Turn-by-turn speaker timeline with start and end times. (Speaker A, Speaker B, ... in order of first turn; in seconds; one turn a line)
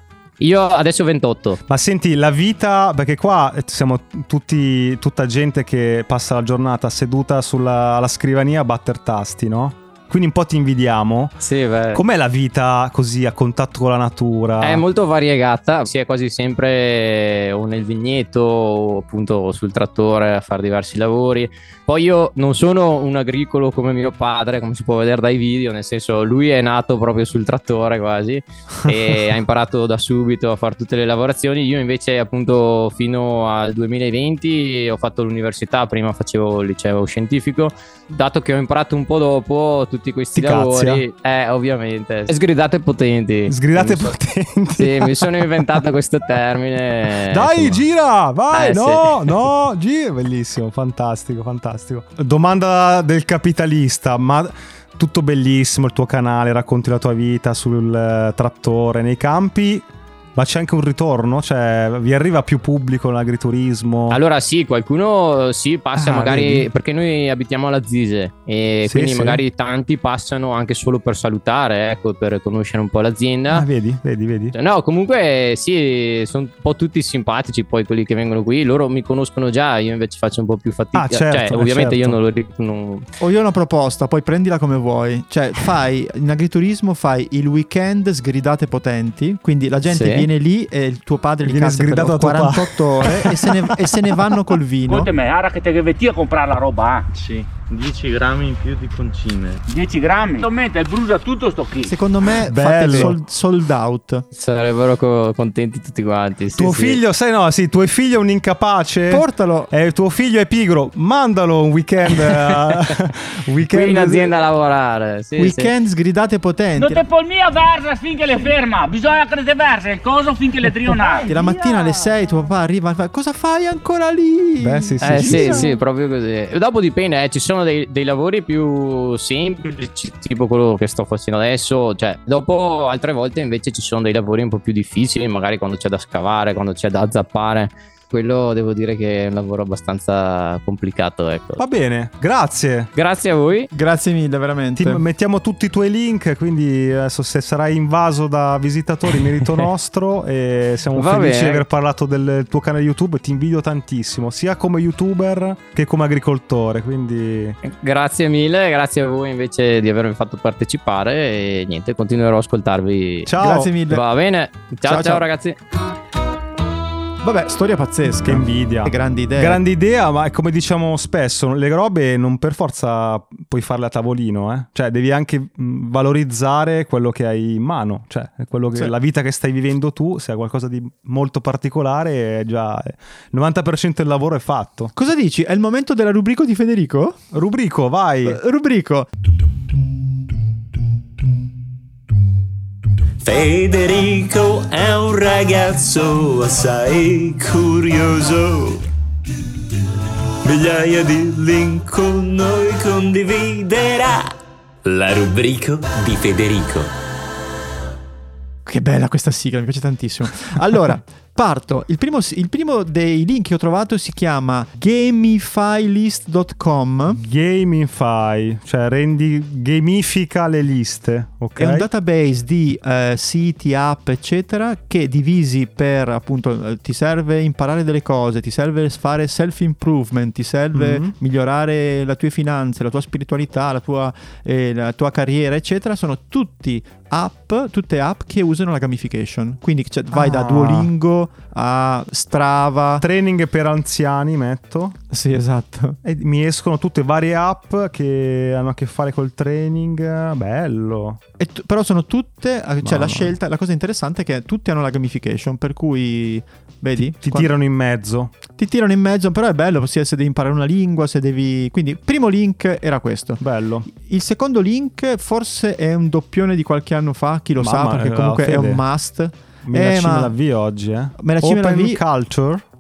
Speaker A: 0.4-1.6
Speaker B: 1.7-11.4
Speaker A: 11.4-12.0
Speaker B: 11.9-14.8
Speaker A: 14.6-44.1
Speaker B: 40.4-41.0
Speaker B: 43.5-45.8
Speaker A: 44.8-47.8
Speaker B: 47.3-59.9
Speaker A: 48.5-49.5
Speaker B: 60.4-64.2
Speaker A: 64.1-73.7
Speaker B: 66.0-66.7
Speaker B: 68.9-69.4
Speaker B: 73.5-74.5
Speaker A: 74.5-83.1
Speaker B: 81.0-82.2
Speaker C: 83.2-95.1
Speaker A: 89.9-90.3
Speaker B: 91.5-94.3
Speaker D: 94.9-97.1
Speaker E: 97.2-99.6
Speaker D: 99.7-102.0
Speaker C: 101.8-104.2
Speaker B: 102.5-103.2
Speaker A: 104.3-107.0
Speaker B: 106.5-114.3
Speaker C: 109.1-109.7
Speaker A: 112.1-112.9
Speaker A: 113.7-115.7
Speaker C: 115.4-117.0
Speaker D: 116.8-121.3
Speaker E: 120.9-122.4
Speaker C: 121.3-125.7
Speaker B: 124.6-125.7
Speaker A: 125.0-141.6
Speaker B: 141.6-142.9
Speaker A: 142.9-143.7
Speaker C: 143.7-145.0
Speaker B: 144.8-157.6
Speaker A: 150.9-151.7
Speaker A: 157.6-163.3
Speaker B: 163.3-163.7
Speaker C: 163.4-164.1
Speaker A: 163.9-165.6
Speaker C: 164.8-165.2
Speaker C: 167.2-169.6
Speaker B: 168.2-184.9
Speaker C: 185.0-187.2
Speaker B: 187.3-188.4
Speaker C: 188.2-189.1
Speaker F: 193.2-198.9
Speaker F: 200.4-206.9
Speaker C: 208.7-217.2
Speaker B: 217.2-221.9
Speaker C: 221.6-243.1
Speaker B: 230.7-231.1
Speaker B: 240.1-240.9
Speaker B: 243.0-244.9
Speaker C: 245.1-246.0
Speaker B: 246.0-251.2
Speaker C: 251.4-257.5
Speaker B: 252.8-253.3
Speaker B: 257.0-258.3
Speaker C: 258.6-270.3
Speaker B: 263.4-263.9
Speaker B: 267.6-268.8
Speaker B: 269.7-272.6
Speaker C: 271.2-272.0